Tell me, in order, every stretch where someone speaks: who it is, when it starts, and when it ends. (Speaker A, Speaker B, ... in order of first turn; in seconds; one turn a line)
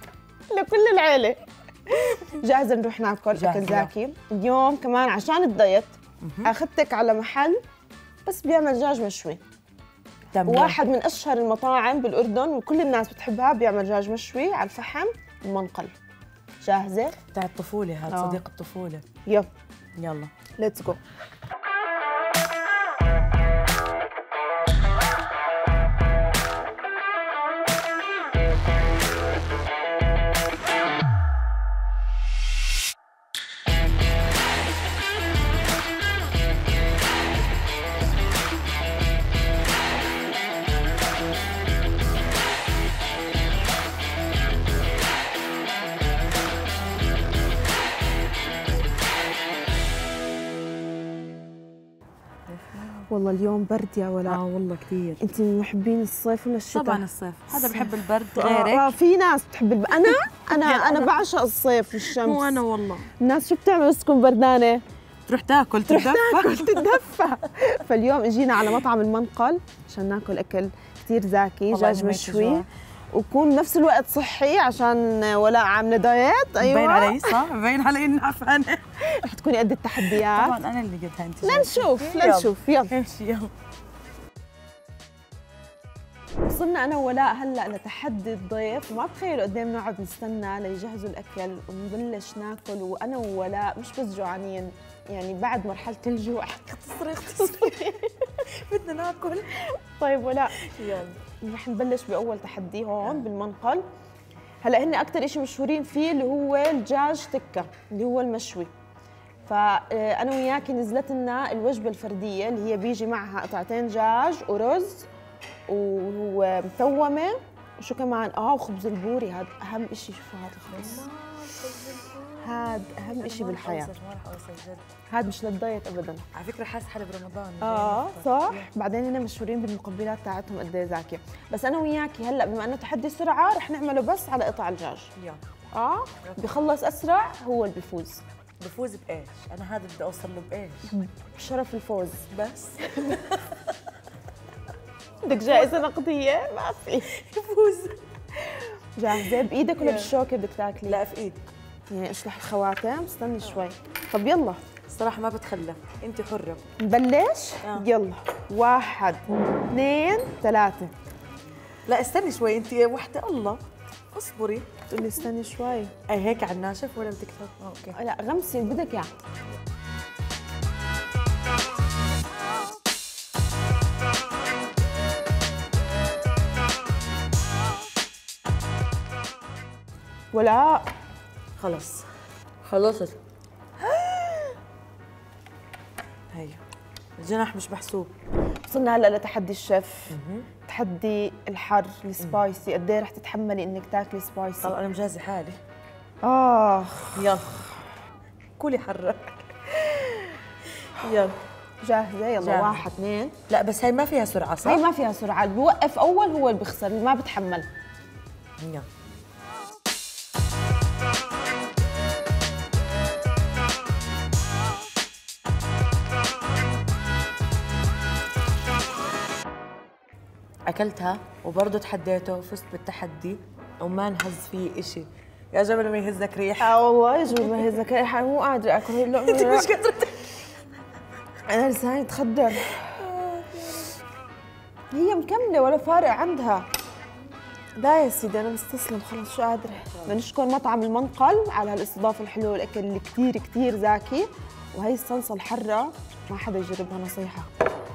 Speaker A: 0.5-7.6
Speaker B: 3.3-3.9
Speaker B: 6.2-6.5
Speaker A: 8.2-9.4
Speaker B: 10.3-10.8
Speaker A: 10.4-15.9
Speaker A: 16.6-17.2
Speaker B: 17.3-19.0
Speaker A: 18.1-18.4
Speaker B: 20.0-20.3
Speaker A: 20.6-21.0
Speaker B: 52.5-53.1
Speaker A: 53.1-54.4
Speaker B: 54.2-55.2
Speaker A: 55.2-62.6
Speaker B: 56.7-59.0
Speaker B: 60.0-61.2
Speaker B: 62.1-63.1
Speaker A: 63.2-64.8
Speaker B: 65.3-67.0
Speaker A: 65.8-77.4
Speaker B: 71.7-72.7
Speaker B: 76.6-78.8
Speaker A: 79.0-80.5
Speaker B: 80.0-83.5
Speaker A: 81.4-82.9
Speaker A: 86.4-98.4
Speaker B: 97.4-97.9
Speaker B: 98.5-99.5
Speaker A: 99.6-100.6
Speaker B: 100.5-101.2
Speaker A: 101.3-103.8
Speaker B: 103.0-103.3
Speaker A: 104.6-108.7
Speaker A: 109.5-115.1
Speaker A: 115.7-121.1
Speaker B: 120.7-124.9
Speaker A: 122.4-123.9
Speaker A: 125.1-126.3
Speaker B: 126.3-128.7
Speaker A: 127.6-135.1
Speaker B: 135.2-135.4
Speaker A: 135.7-138.2
Speaker B: 136.2-136.5
Speaker B: 138.6-140.9
Speaker A: 140.9-142.3
Speaker B: 142.3-143.8
Speaker A: 145.2-147.1
Speaker B: 145.5-145.8
Speaker B: 147.1-148.6
Speaker A: 148.9-151.0
Speaker B: 149.1-150.1
Speaker B: 150.8-151.4
Speaker A: 151.9-154.6
Speaker B: 154.9-156.6
Speaker A: 156.8-160.9
Speaker B: 157.6-157.9
Speaker B: 161.9-164.9
Speaker A: 164.9-165.9
Speaker B: 166.1-168.0
Speaker A: 167.9-169.1
Speaker A: 180.3-180.8
Speaker B: 181.6-182.1
Speaker B: 182.6-183.2
Speaker B: 183.9-184.5
Speaker B: 186.3-186.6
Speaker B: 187.2-188.1
Speaker A: 188.7-194.7
Speaker B: 190.1-190.5
Speaker B: 194.6-195.6
Speaker A: 196.2-197.3
Speaker B: 197.1-197.7
Speaker B: 198.6-201.4
Speaker A: 201.8-203.3
Speaker B: 202.4-202.8
Speaker B: 203.5-204.8
Speaker A: 204.6-207.7
Speaker B: 208.6-208.9
Speaker B: 220.7-226.8
Speaker A: 226.6-229.7
Speaker B: 227.3-227.6
Speaker B: 229.1-230.4
Speaker A: 231.5-232.9
Speaker B: 233.0-233.9
Speaker A: 234.9-236.7
Speaker A: 237.8-247.5